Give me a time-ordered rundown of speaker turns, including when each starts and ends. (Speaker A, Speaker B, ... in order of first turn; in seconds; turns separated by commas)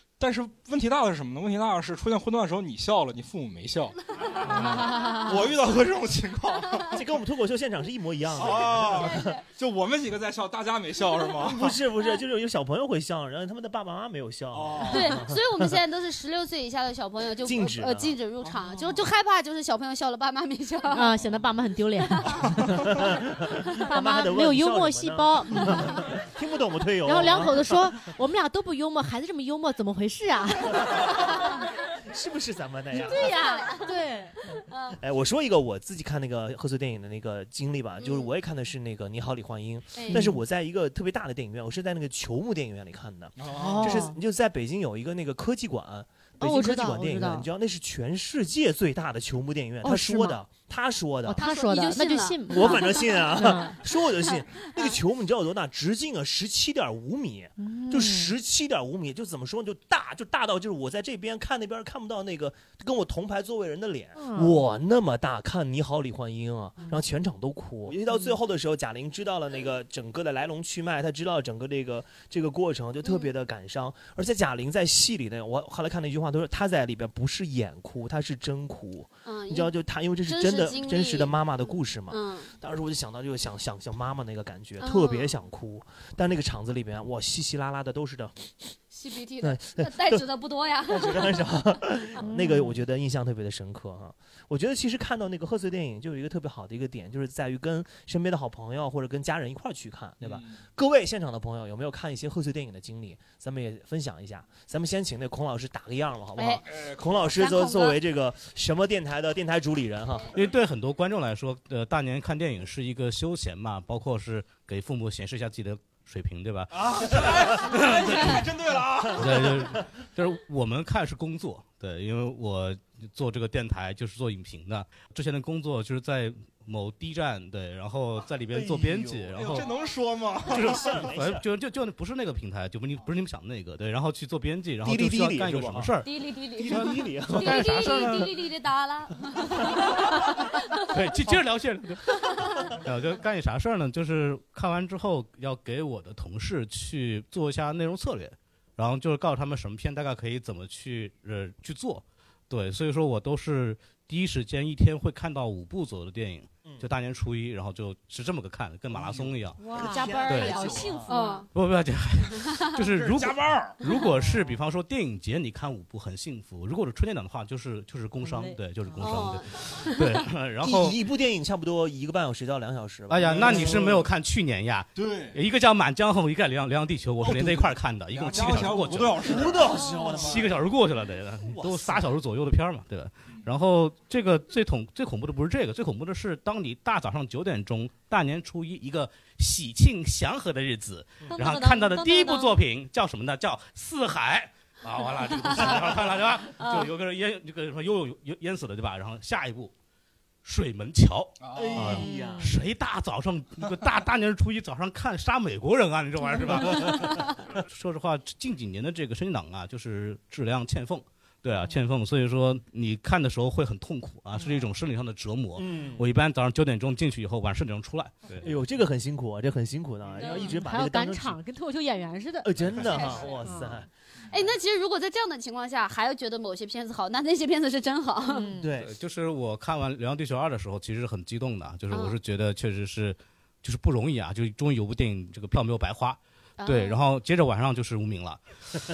Speaker A: 0.2-7.0, Speaker B: 4.5-5.3, Speaker C: 6.9-9.3, Speaker A: 8.3-11.8, Speaker D: 8.9-9.4, Speaker C: 11.4-15.8, Speaker A: 14.5-15.1, Speaker D: 14.8-21.2, Speaker C: 17.4-18.1, Speaker B: 20.9-22.3, Speaker D: 22.0-22.4, Speaker C: 22.6-27.8, Speaker B: 23.8-26.0, Speaker B: 27.0-30.9, Speaker C: 32.1-33.3, Speaker B: 33.0-34.4, Speaker D: 33.0-33.9, Speaker D: 34.7-35.0, Speaker C: 35.0-51.4, Speaker D: 38.0-38.3, Speaker D: 39.9-40.2, Speaker B: 40.1-40.4, Speaker A: 43.4-44.0, Speaker B: 43.5-44.2, Speaker B: 46.4-47.5, Speaker B: 49.8-50.4, Speaker B: 51.2-53.7, Speaker D: 51.4-53.2, Speaker C: 52.5-88.5, Speaker D: 54.5-55.0, Speaker B: 57.6-58.3, Speaker B: 64.2-64.6, Speaker D: 73.0-73.3, Speaker D: 79.2-79.7, Speaker D: 80.2-81.3, Speaker D: 82.1-82.5, Speaker D: 84.8-85.3, Speaker D: 88.9-91.5, Speaker C: 89.4-90.3, Speaker C: 90.9-110.3, Speaker B: 92.2-92.8, Speaker A: 100.2-100.6, Speaker D: 106.4-106.6, Speaker A: 106.7-107.0, Speaker D: 107.2-108.0, Speaker E: 110.3-118.5, Speaker A: 116.7-119.6, Speaker E: 119.1-129.7, Speaker C: 128.5-129.3, Speaker A: 129.3-131.0, Speaker C: 130.4-131.4, Speaker E: 130.5-136.1, Speaker C: 134.8-135.9, Speaker D: 136.0-140.8, Speaker C: 136.6-138.2, Speaker E: 136.7-138.3, Speaker E: 140.9-142.0, Speaker E: 142.6-159.6, Speaker C: 156.6-156.9, Speaker C: 158.9-161.1, Speaker B: 159.6-161.4, Speaker D: 159.7-161.5, Speaker E: 160.3-160.7, Speaker E: 161.5-171.0, Speaker D: 162.4-162.8, Speaker A: 163.0-163.8, Speaker B: 163.9-164.3, Speaker B: 168.2-169.0, Speaker D: 169.0-170.3, Speaker C: 170.6-173.8, Speaker E: 173.1-199.7, Speaker A: 173.3-174.1, Speaker A: 174.9-175.4, Speaker C: 177.2-177.7, Speaker A: 178.1-179.6, Speaker C: 178.3-180.7, Speaker D: 179.8-180.1, Speaker B: 179.8-180.2, Speaker C: 181.5-182.1, Speaker B: 191.3-192.6, Speaker D: 195.4-195.7, Speaker D: 196.6-196.9, Speaker E: 200.4-218.5, Speaker A: 201.4-202.0, Speaker C: 201.5-202.5, Speaker B: 202.0-202.4, Speaker C: 215.6-216.1, Speaker C: 218.4-221.4, Speaker D: 220.2-220.5, Speaker B: 220.2-222.5, Speaker C: 222.4-223.9, Speaker A: 222.7-223.0, Speaker D: 222.8-223.4, Speaker B: 223.4-223.8, Speaker D: 224.3-228.5, Speaker B: 228.3-228.7, Speaker C: 228.6-228.9, Speaker E: 228.8-238.4, Speaker D: 231.9-232.2, Speaker D: 236.6-237.0